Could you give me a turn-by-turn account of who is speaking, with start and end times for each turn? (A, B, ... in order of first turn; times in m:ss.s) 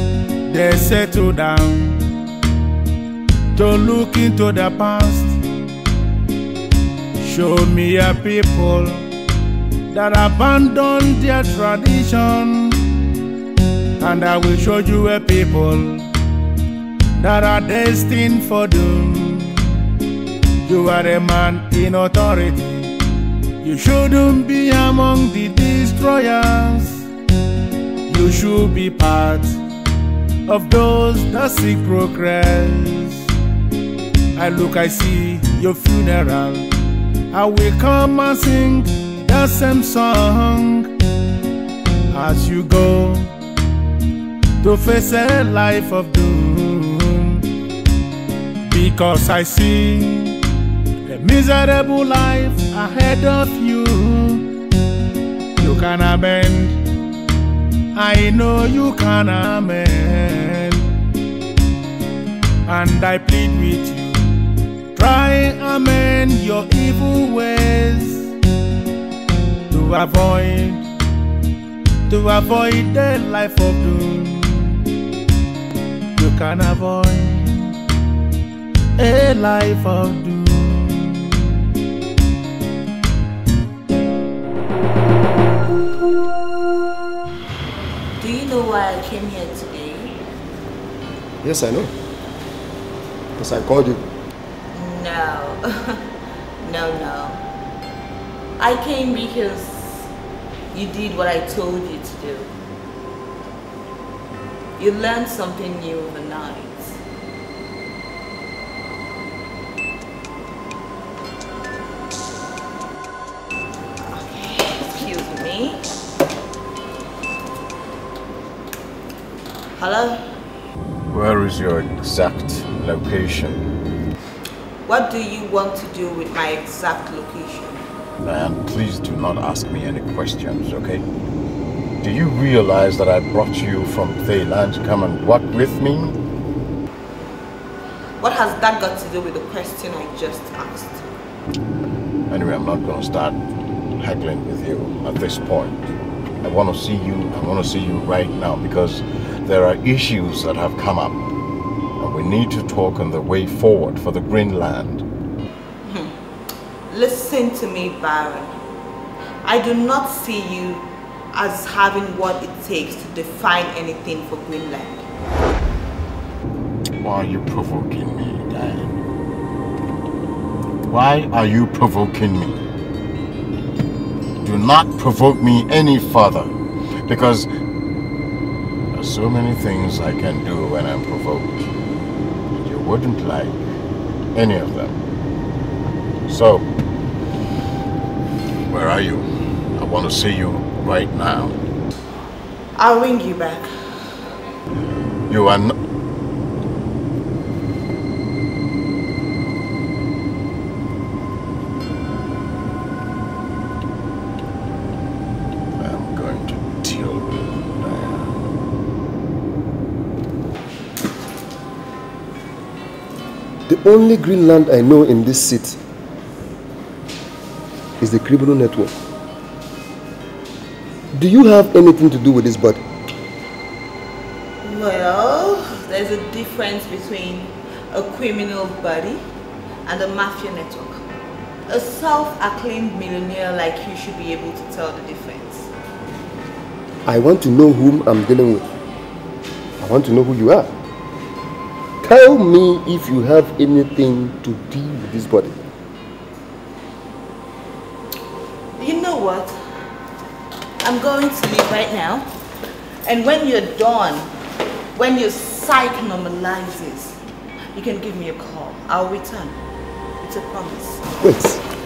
0:00.5-0:02.0 A
0:03.6-0:05.4 A
0:07.2-0:09.1 A
0:09.9-0:12.8 A
0:14.0-0:16.1 A
0:17.2-0:19.7 A
0:20.6-0:22.9 A
0:23.6-0:27.1 A
0:28.1-0:29.6 A
0:30.5-0:33.3 A
0:34.4-0:36.7 A
0:37.3-0:40.9 A
0:42.1-0:43.3 A
0:44.6-0:47.5 A
0:48.7-0:50.4 A
0:51.1-0:54.5 A
0:55.6-0:56.8 A
0:58.0-1:00.9 A
1:02.7-1:04.4 A
1:05.0-1:08.3 A
1:09.7-1:10.9 A
1:12.1-1:14.8 A
1:16.2-1:17.7 A
1:19.0-1:21.2 A
1:28.2-1:30.2 B
1:31.4-1:31.9 C
1:33.4-1:34.1 C
1:34.7-1:36.0 B
1:36.6-1:37.4 B
1:38.6-1:40.1 B
1:40.7-1:42.5 B
1:44.8-1:47.0 B
1:54.0-1:55.8 B
1:59.8-2:00.3 B
2:01.1-2:03.7 D
2:04.8-2:07.8 B
2:08.2-2:11.0 D
2:12.0-2:16.2 D
2:18.2-2:21.1 B
2:22.3-2:23.4 D
2:24.0-2:25.8 D
2:26.4-2:31.2 D
2:32.0-2:35.0 D
2:35.8-2:36.2 B
2:36.9-2:38.6 B
2:39.4-2:45.1 B
2:47.0-2:49.0 D
2:50.9-2:52.6 D
2:54.4-2:56.5 D
2:57.1-2:57.5 D
2:58.9-3:01.8 D
3:02.5-3:03.6 D
3:04.4-3:05.0 D
3:06.3-3:06.7 D
3:08.7-3:11.6 D
3:12.8-3:13.7 B
3:15.3-3:15.8 D
3:25.8-3:28.4 D
3:33.7-3:35.8 C
3:38.0-3:39.0 C
3:41.1-3:42.8 C
3:44.6-3:49.3 B
3:49.8-3:51.0 B
3:51.7-3:55.7 B
3:57.1-3:58.7 C
3:59.8-4:00.7 C
4:02.0-4:05.6 C
4:08.8-4:09.6 B
4:10.8-4:12.3 B
4:13.0-4:14.3 B
4:15.0-4:17.2 B
4:17.7-4:19.6 B
4:20.2-4:21.0 B
4:21.2-4:21.6 C